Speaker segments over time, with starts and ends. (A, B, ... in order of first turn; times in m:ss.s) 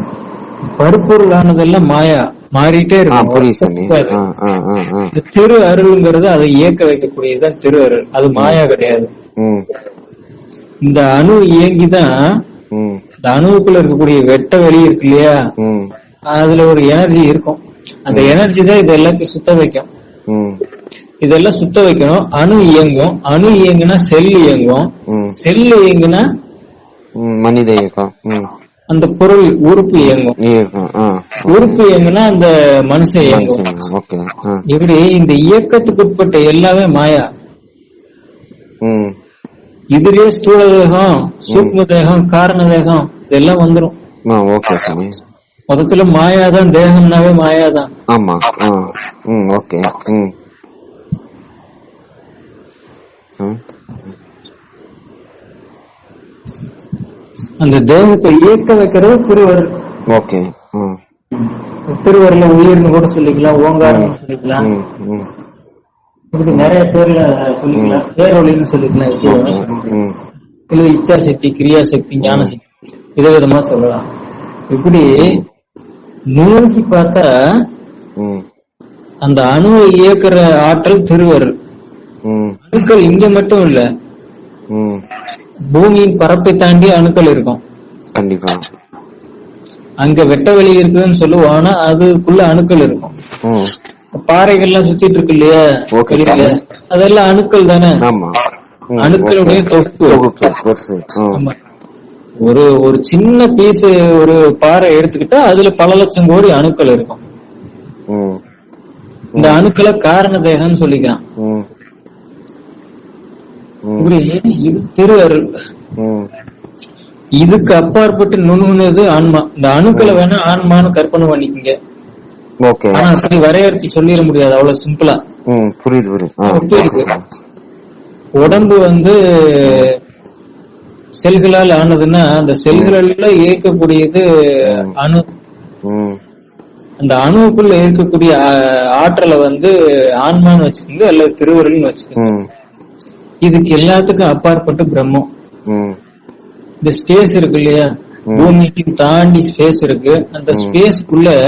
0:00.8-0:04.2 A
0:03.1-0:05.1 B
0:05.1-0:09.1 A
0:08.4-0:08.6 B
0:09.4-0:09.6 B
0:10.8-0:12.1 A
0:12.7-0:13.0 B
0:13.2-0:15.4 A
0:15.6-0:15.9 B
0:16.4-0:19.9 A
0:18.1-0:18.4 B
0:20.3-0:20.6 B
0:21.2-0:26.2 A
0:25.1-0:25.4 B
0:27.2-0:28.5 B
0:28.9-0:30.4 A
0:30.4-0:31.8 B
0:31.5-0:33.6 A
0:33.2-0:34.6 B
0:34.7-0:37.2 A
0:38.8-0:39.2 B
0:40.0-0:44.0 A
0:41.5-0:41.8 B
0:44.3-0:45.2 B
0:45.7-0:47.9 A
0:48.1-0:50.3 B
0:57.6-0:59.7 A
1:00.1-1:01.0 B
1:01.4-1:04.7 A
1:03.8-1:05.3 B
1:06.3-1:10.0 A
1:07.8-1:08.0 B
1:09.2-1:10.2 B
1:10.7-1:12.6 A
1:12.2-1:12.5 B
1:13.2-1:14.1 A
1:14.7-1:15.4 A
1:15.2-1:15.4 B
1:16.4-1:17.3 A
1:18.2-1:18.4 B
1:19.2-1:21.5 A
1:22.2-1:22.6 B
1:22.7-1:23.8 A
1:24.7-1:25.0 B
1:25.7-1:27.6 A
1:28.2-1:28.6 B
1:30.0-1:33.1 A
1:33.4-1:33.7 B
1:34.2-1:38.0 A
1:36.0-1:36.6 B
1:38.0-1:38.4 B
1:38.9-1:41.4 B
1:39.0-1:40.2 A
1:42.4-1:47.2 A
1:48.1-1:48.4 B
1:49.4-1:49.6 B
1:49.4-1:51.2 A
1:51.4-1:51.7 B
1:53.8-1:54.1 B
1:54.0-1:55.5 A
1:56.0-1:56.3 B
1:57.4-2:01.7 A
1:59.9-2:00.2 B
2:02.6-2:03.1 B
2:02.9-2:05.2 A
2:05.5-2:07.2 B
2:06.5-2:07.1 A
2:08.4-2:09.9 A
2:11.2-2:15.2 A
2:12.7-2:13.0 B
2:14.6-2:14.9 B
2:15.8-2:16.2 B
2:17.0-2:19.7 A
2:20.2-2:22.4 A
2:22.2-2:22.5 B
2:23.4-2:25.3 A
2:25.7-2:26.0 B
2:26.8-2:31.4 A
2:28.3-2:28.6 B
2:30.5-2:30.8 B